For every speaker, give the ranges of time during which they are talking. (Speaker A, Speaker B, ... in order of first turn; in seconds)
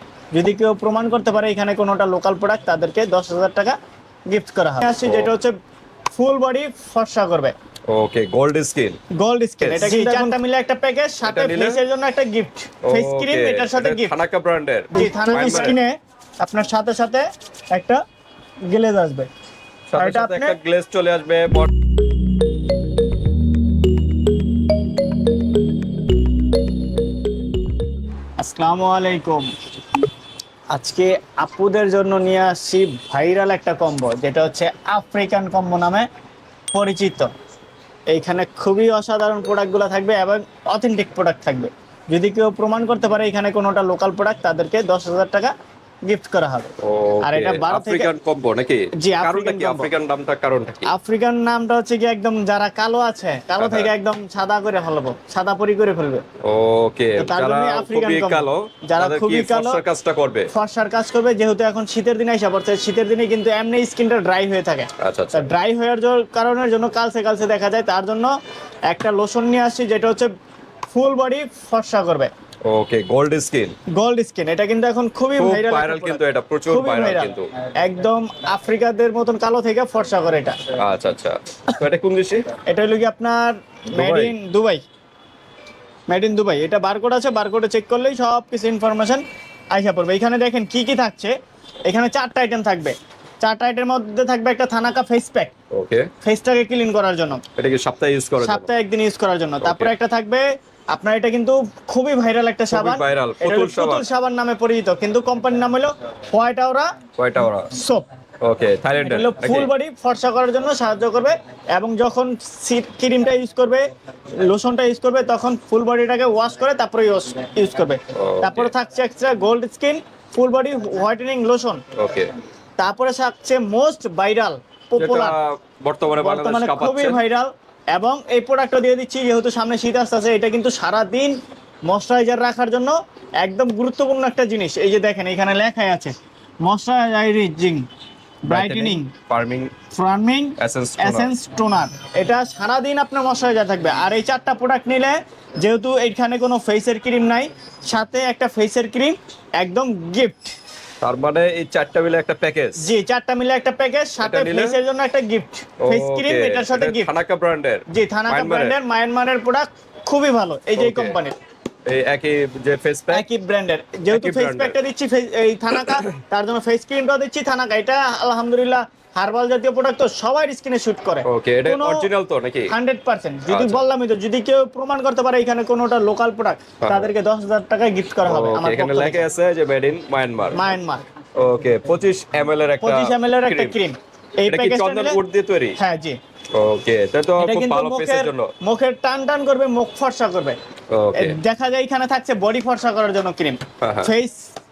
Speaker A: 0.3-3.8, 4.3-5.5, 6.1-7.5, 9.2-14.1, 14.9-18.0, 18.7-19.3, 20.0-20.6, 28.4-29.4, 30.7-36.1, 36.7-37.3, 38.1-45.5, 46.0-48.1, 49.0-49.9, 50.9-56.2, 57.2-59.8, 60.5-68.3, 68.9-70.3, 70.9-72.3, 73.9-77.3, 77.8-80.6, 82.7-84.8, 86.1-89.2, 89.7-91.3, 91.8-95.5, 96.2-97.4, 98.4-106.9, 107.7-108.0, 109.0-113.9, 114.4-121.8, 122.8-125.3, 126.2-137.8, 138.4-139.1, 139.9-150.5, 152.8-157.1, 157.9-161.3, 163.1-172.1, 172.7-179.2, 180.5-181.1, 182.8-185.2, 185.8-186.2, 187.4-190.6, 191.1-194.5
Speaker B: 5.0-5.3, 7.9-9.0, 9.6-10.3, 11.2-11.8, 12.8-15.8, 19.9-21.7, 46.8-50.9, 53.6-53.9, 56.4-60.5, 65.0-65.5, 72.7-73.8, 75.4-77.5, 80.8-82.5, 84.0-84.3, 95.7-96.1, 97.5-98.7, 99.6-99.9, 102.7-104.0, 107.2-107.7, 108.4-109.7, 118.1-118.7, 121.9-122.3, 125.0-127.2, 138.5-139.7, 140.6-141.3, 151.0-152.9, 154.2-154.8, 155.8-158.8, 160.8-161.2, 161.8-163.2, 164.1-164.8, 165.7-166.2, 171.2-172.7, 173.5-173.8, 176.8-177.1, 178.2-180.7, 181.3-183.8, 184.4-185.8, 186.5-188.5, 190.9-191.4, 193.8-194.1